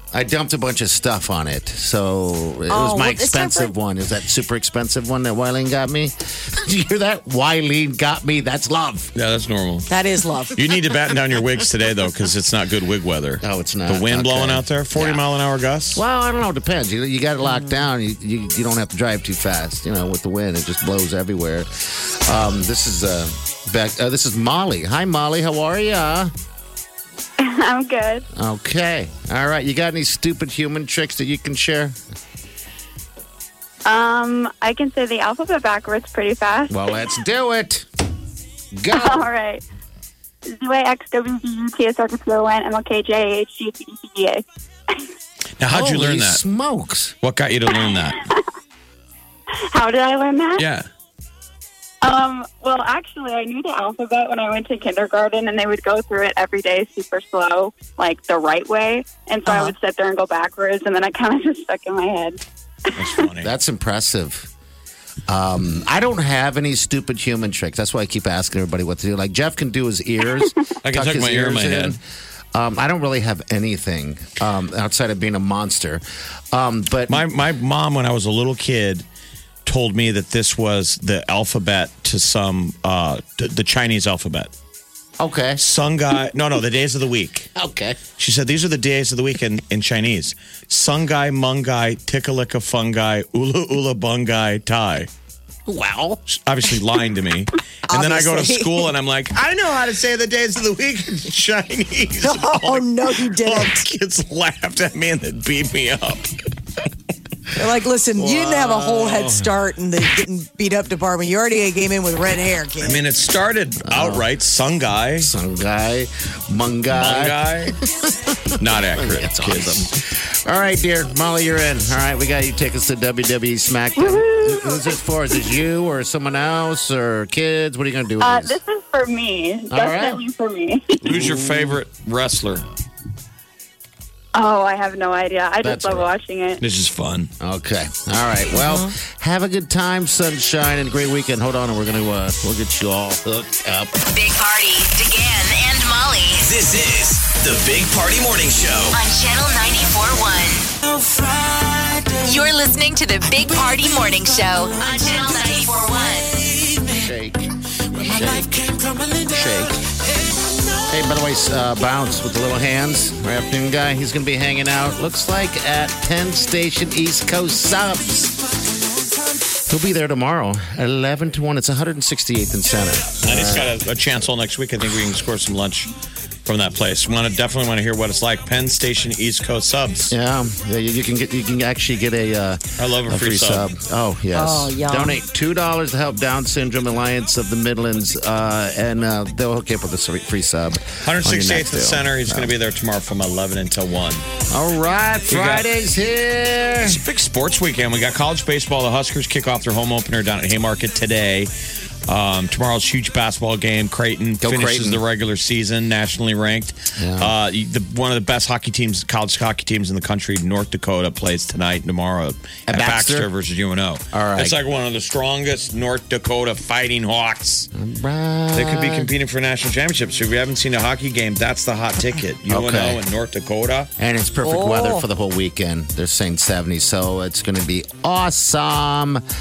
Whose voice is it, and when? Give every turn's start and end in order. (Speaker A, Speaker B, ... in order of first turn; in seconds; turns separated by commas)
Speaker A: 0.1-9.1, Speaker B: 2.7-3.7, Speaker C: 9.2-9.9, Speaker B: 9.9-10.6, Speaker C: 10.6-16.0, Speaker A: 13.4-15.2, Speaker A: 15.9-26.3, Speaker D: 27.4-28.2, Speaker A: 28.4-32.0, Speaker D: 33.9-36.9, Speaker A: 36.7-37.9, Speaker A: 38.8-39.3, Speaker D: 38.9-39.6, Speaker D: 40.5-45.0, Speaker C: 45.6-46.4, Speaker A: 45.7-47.2, Speaker C: 47.2-48.3, Speaker D: 47.7-48.4, Speaker D: 49.7-50.7, Speaker C: 50.6-50.9, Speaker D: 52.0-62.4, Speaker B: 59.5-59.8, Speaker C: 63.0-63.5, Speaker A: 63.4-64.5, Speaker A: 65.3-72.0, Speaker C: 70.8-72.0, Speaker A: 72.5-77.3, Speaker C: 77.1-79.0, Speaker C: 79.7-84.5, Speaker A: 85.2-85.6, Speaker C: 85.6-87.5, Speaker A: 87.6-88.0, Speaker C: 88.2-95.1, Speaker A: 95.7-96.2, Speaker C: 96.3-106.3, Speaker B: 97.9-98.9, Speaker B: 102.2-103.8, Speaker B: 107.5-113.0, Speaker A: 108.2-109.5, Speaker C: 112.8-115.3, Speaker A: 113.8-114.2, Speaker A: 115.2-128.6, Speaker C: 116.9-117.8, Speaker C: 118.6-119.9, Speaker D: 124.0-125.0, Speaker D: 128.2-131.1, Speaker A: 129.7-130.2, Speaker C: 131.0-132.6, Speaker A: 131.0-131.8, Speaker D: 134.3-136.6, Speaker A: 135.6-136.1, Speaker C: 136.6-137.3, Speaker A: 137.4-143.9, Speaker B: 138.6-138.9, Speaker E: 144.1-146.5, Speaker F: 146.4-149.0, Speaker E: 148.9-150.7, Speaker E: 152.1-156.4, Speaker A: 156.9-159.8, Speaker A: 160.9-168.3, Speaker A: 169.7-173.7, Speaker C: 173.2-175.9, Speaker C: 176.4-180.1, Speaker A: 180.1-192.5, Speaker C: 182.8-183.7, Speaker B: 184.3-185.2, Speaker C: 191.0-194.2, Speaker A: 194.5-197.0, Speaker C: 195.3-195.7, Speaker C: 196.8-201.5, Speaker C: 202.1-217.7, Speaker A: 204.4-205.0, Speaker A: 207.0-207.3, Speaker A: 212.7-213.3, Speaker A: 214.1-214.6, Speaker A: 217.7-219.1, Speaker C: 218.5-223.9, Speaker A: 222.5-223.0, Speaker A: 224.0-229.2, Speaker B: 224.4-225.1